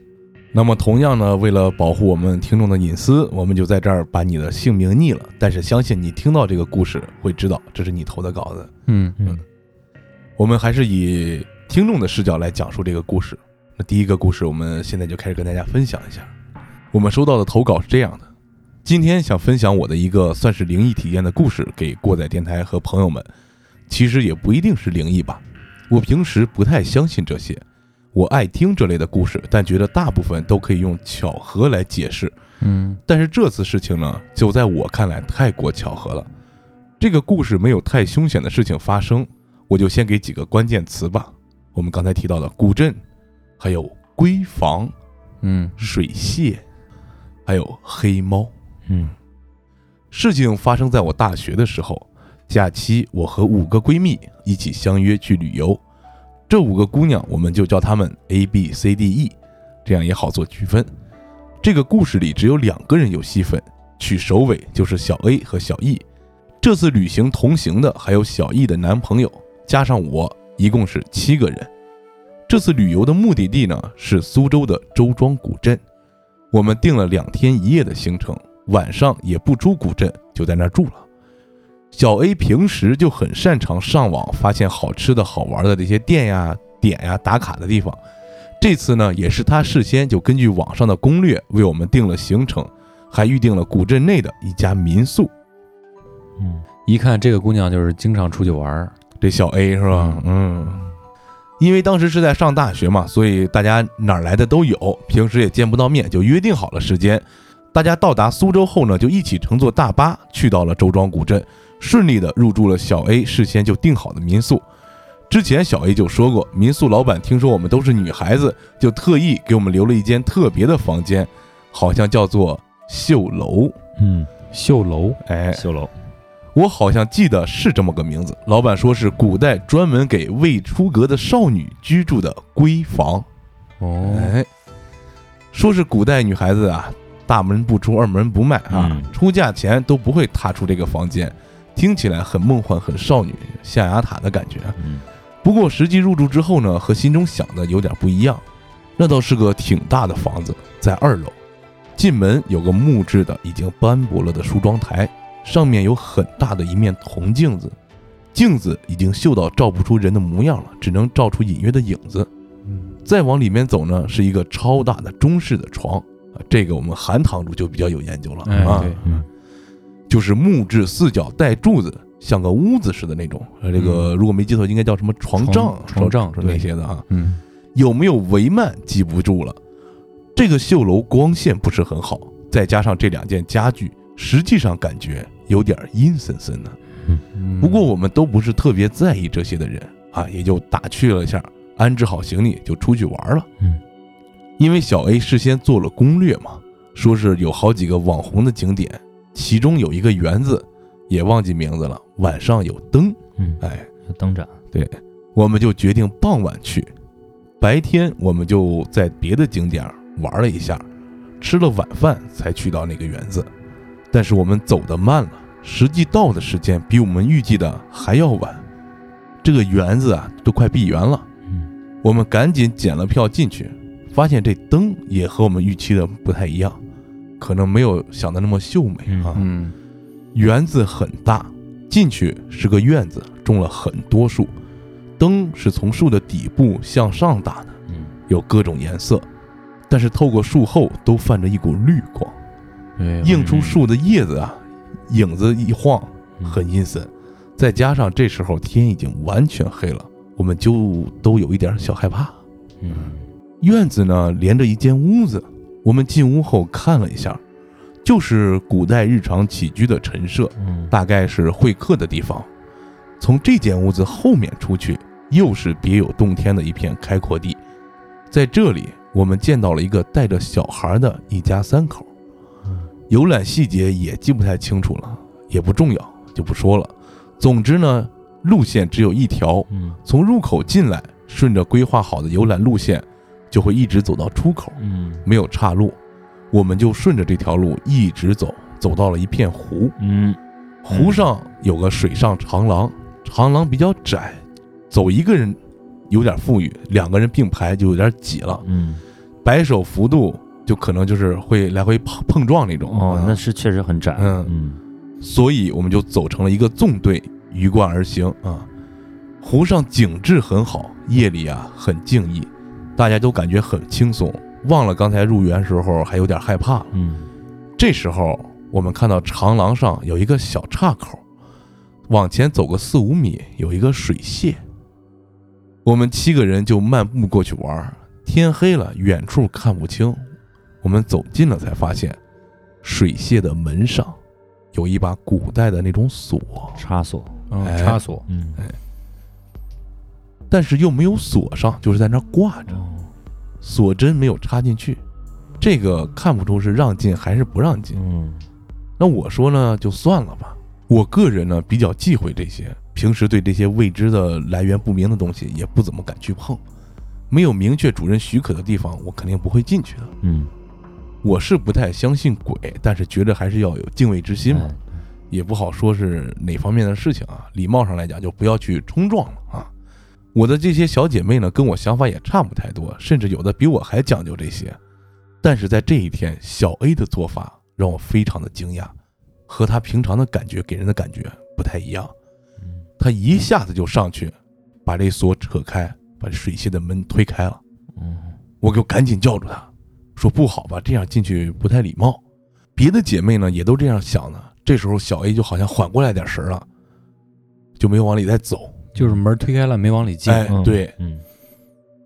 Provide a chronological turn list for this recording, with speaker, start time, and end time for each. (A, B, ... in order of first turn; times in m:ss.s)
0:00.5-0:08.7 A
0:08.9-0:09.2 B
0:10.4-0:16.3 A
0:16.9-0:18.3 A
0:18.8-0:23.3 A
0:23.9-0:32.4 A
0:32.6-0:33.0 B
0:33.1-0:36.3 A
0:37.0-0:43.0 A
0:43.6-0:44.9 A
0:45.4-0:45.8 B
0:45.8-0:46.6 A
0:47.5-0:48.5 A
0:50.1-0:55.8 A
0:56.5-1:00.9 A
1:01.6-1:06.0 A
1:06.6-1:11.7 A
1:12.5-1:15.8 A
1:16.5-1:21.1 A
1:21.9-1:28.0 A
1:28.6-1:35.3 A
1:36.4-1:36.6 C
1:36.9-1:38.9 B
1:39.2-1:40.8 A
1:41.6-1:54.6 A
1:55.3-2:03.8 A
2:04.0-2:04.3 C
2:04.5-2:05.2 B
2:05.2-2:05.7 A
2:05.5-2:05.9 C
2:06.6-2:13.3 A
2:13.8-2:14.3 B
2:14.0-2:14.5 A
2:15.5-2:24.8 A
2:18.7-2:19.1 C
2:24.8-2:25.0 C
2:25.4-2:28.4 A
2:29.0-2:31.4 A
2:32.0-2:37.8 A
2:38.3-2:42.3 A
2:43.0-2:49.0 A
2:48.4-2:49.2 B
2:48.6-2:49.3 C
2:50.1-2:57.0 A
2:55.4-2:57.4 B
2:57.8-2:59.6 A
3:00.4-3:06.8 A
3:07.4-3:07.8 B
3:07.6-3:13.5 A
3:14.6-3:23.9 A
3:23.4-3:24.5 C
3:24.7-3:26.9 A
3:27.6-3:30.8 A
3:31.4-3:33.5 A
3:34.1-3:38.6 A
3:39.4-3:41.3 A
3:42.0-3:46.8 A
3:47.4-3:49.4 A
3:49.1-3:49.4 C
3:49.3-3:49.7 B
3:50.3-3:54.5 A
3:55.2-3:57.8 A
3:58.3-3:59.3 A
3:59.9-4:02.4 A
4:03.0-4:03.4 B
4:03.2-4:12.4 A
4:03.3-4:03.8 C
4:12.8-4:13.2 C
4:13.6-4:17.4 A
4:18.0-4:22.5 A
4:20.6-4:20.9 C
4:23.2-4:27.6 A
4:28.3-4:32.1 A
4:33.1-4:46.0 A
4:39.7-4:40.0 C
4:44.8-4:45.2 C
4:46.5-4:50.0 A
4:50.0-4:50.4 C
4:50.8-4:55.6 A
4:50.9-4:51.2 C
4:56.1-4:58.6 A
4:58.6-4:59.0 C
4:59.4-5:03.4 A
5:02.9-5:04.8 C
5:04.2-5:04.5 A
5:05.2-5:08.7 A
5:09.4-5:16.9 A
5:16.9-5:17.3 C
5:17.8-5:21.2 A
5:22.1-5:24.6 A
5:25.8-5:30.3 A
5:30.8-5:32.2 A
5:32.8-5:34.2 A
5:34.7-5:36.8 A
5:36.8-5:37.4 C
5:37.5-5:38.2 B
5:37.6-5:38.0 A
5:38.3-5:38.6 C
5:40.5-5:42.8 A
5:42.7-5:43.1 C
5:43.6-5:45.0 A
5:45.6-5:48.0 A
5:47.9-5:48.4 C
5:49.0-5:56.6 A
5:57.3-6:00.1 A
6:00.2-6:00.5 C
6:01.2-6:04.7 A
6:04.5-6:04.8 C
6:05.3-6:09.7 A
6:10.4-6:14.8 A
6:15.4-6:18.9 A
6:19.5-6:22.1 A
6:22.6-6:22.9 C
6:23.0-6:27.6 A
6:28.0-6:28.4 C
6:28.6-6:32.2 A
6:32.8-6:36.7 A
6:37.8-6:38.8 A
6:39.0-6:40.5 B
6:40.3-6:40.9 A
6:40.5-6:41.2 C